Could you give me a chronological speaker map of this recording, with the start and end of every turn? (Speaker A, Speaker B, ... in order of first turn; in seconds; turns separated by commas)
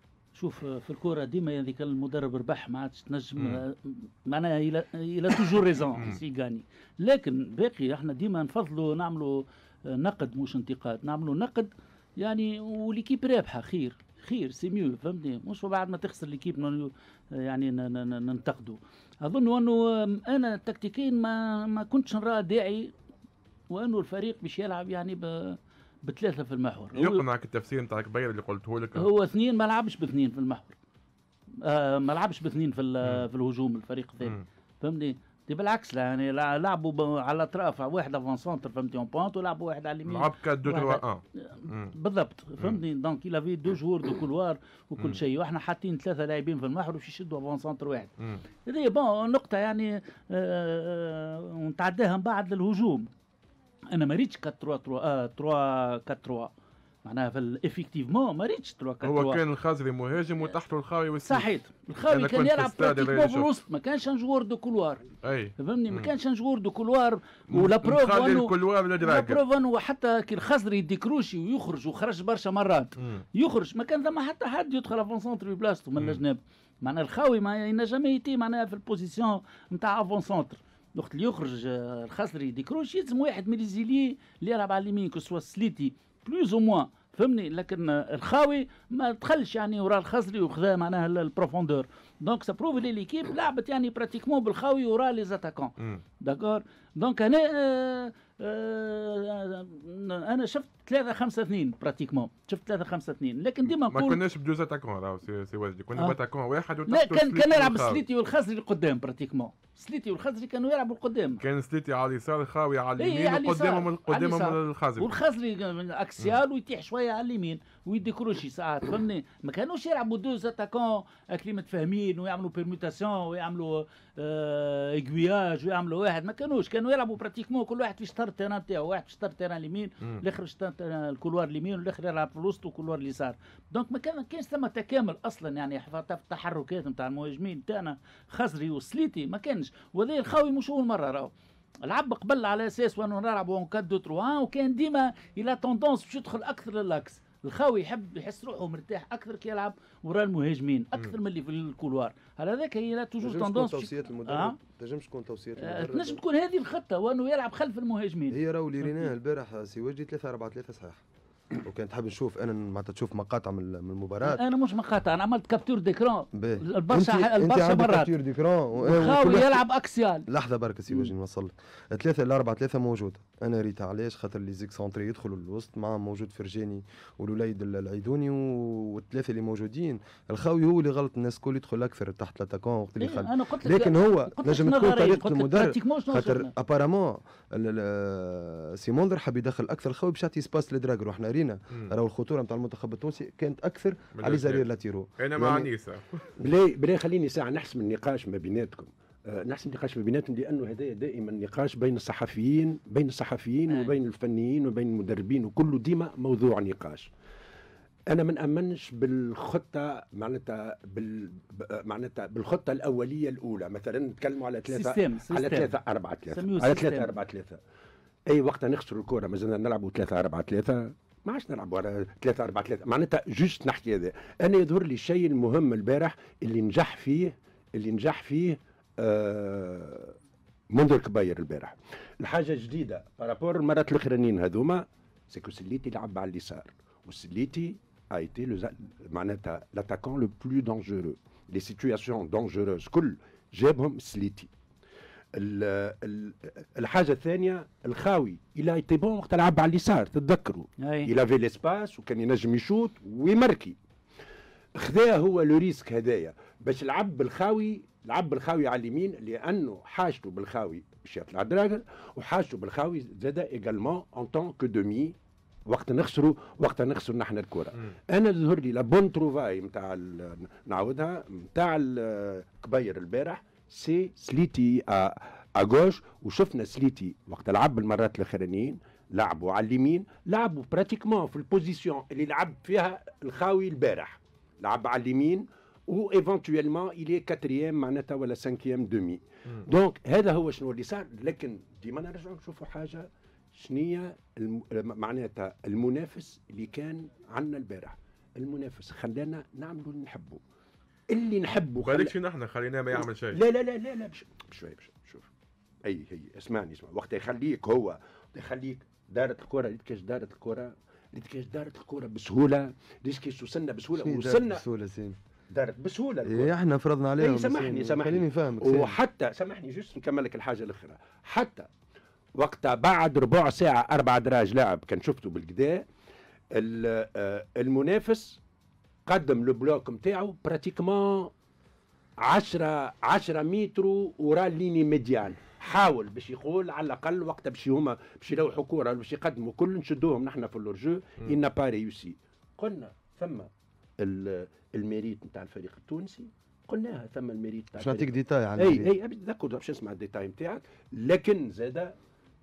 Speaker A: 0.3-22.9, Speaker B: 3.4-3.6, Speaker B: 5.9-6.2, Speaker A: 23.7-27.2, Speaker B: 26.9-29.1, Speaker A: 28.9-30.8, Speaker A: 31.6-53.1, Speaker B: 40.0-41.9, Speaker A: 53.9-56.5, Speaker A: 57.0-59.4, Speaker B: 59.0-61.5, Speaker A: 61.2-104.2, Speaker B: 62.0-63.5, Speaker B: 65.2-66.1, Speaker B: 67.5-69.4, Speaker B: 73.0-73.2, Speaker B: 103.7-108.0, Speaker A: 106.9-111.4, Speaker B: 111.4-115.1, Speaker A: 113.0-141.3, Speaker A: 141.8-154.6, Speaker C: 153.2-156.2, Speaker A: 155.6-159.1, Speaker C: 158.3-161.0, Speaker C: 161.6-164.4, Speaker A: 164.2-168.1, Speaker C: 166.3-169.6, Speaker A: 168.7-170.3, Speaker C: 170.3-195.7, Speaker A: 183.0-186.5, Speaker B: 194.1-196.3, Speaker D: 196.4-207.1, Speaker A: 203.7-203.9, Speaker D: 208.1-217.6, Speaker A: 214.7-215.7, Speaker A: 216.3-217.2, Speaker D: 218.3-230.2, Speaker D: 230.7-244.5, Speaker D: 245.3-253.8, Speaker A: 250.8-251.1, Speaker D: 254.7-265.1, Speaker D: 265.6-300.4, Speaker D: 301.1-302.1, Speaker B: 301.8-303.4, Speaker D: 302.9-305.3, Speaker D: 305.8-314.6, Speaker C: 313.9-315.2, Speaker D: 315.5-316.5, Speaker C: 316.2-319.0, Speaker D: 317.2-321.7, Speaker D: 322.4-325.8, Speaker D: 326.5-328.4, Speaker D: 329.1-331.3, Speaker D: 332.2-351.9, Speaker C: 347.8-348.9